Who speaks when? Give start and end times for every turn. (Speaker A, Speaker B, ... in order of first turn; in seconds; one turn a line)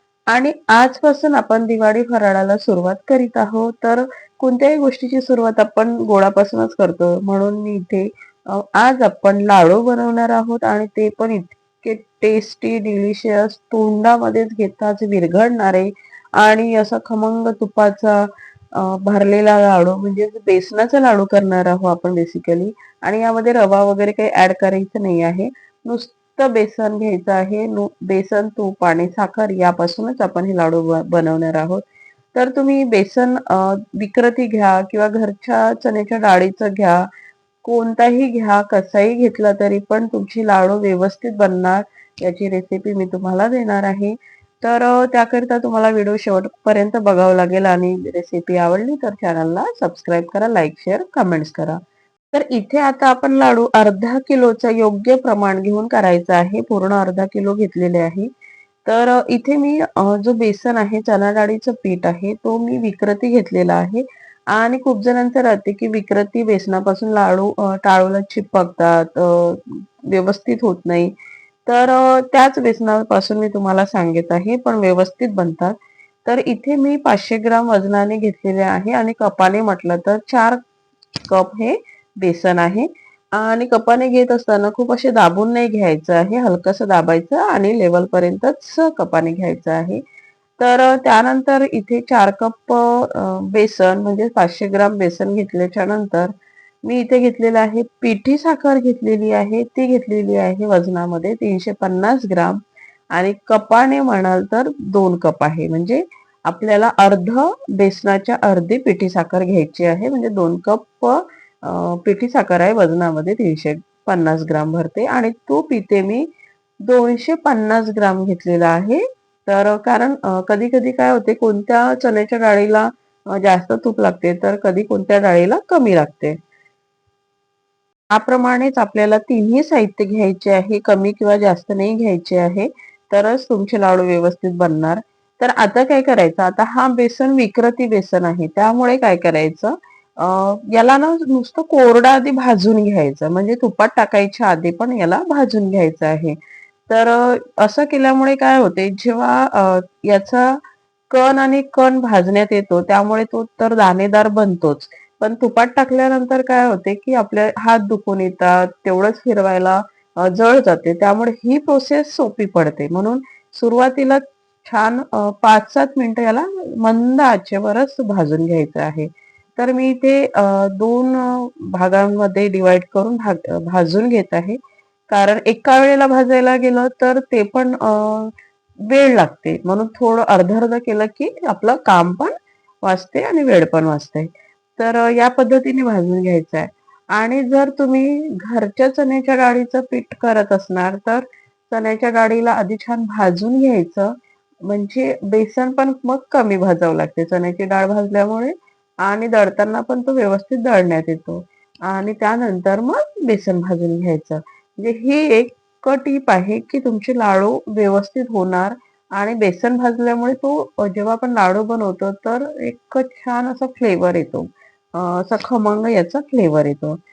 Speaker A: 0.3-37.1
Speaker A: 37.6-51.8
Speaker A: 52.3-58.3
Speaker A: 58.9-71.1
Speaker A: 71.7-80.6
Speaker A: 81.3-90.0
Speaker A: 90.6-96.3
Speaker A: 96.8-102.6
Speaker A: 103.1-116.3
Speaker A: 116.8-126.4
Speaker A: 128.1-146.4
Speaker A: 146.9-150.6
Speaker A: 151.1-174.6
Speaker A: 175.1-178.3
Speaker A: 178.9-194.1
Speaker A: 194.7-217.0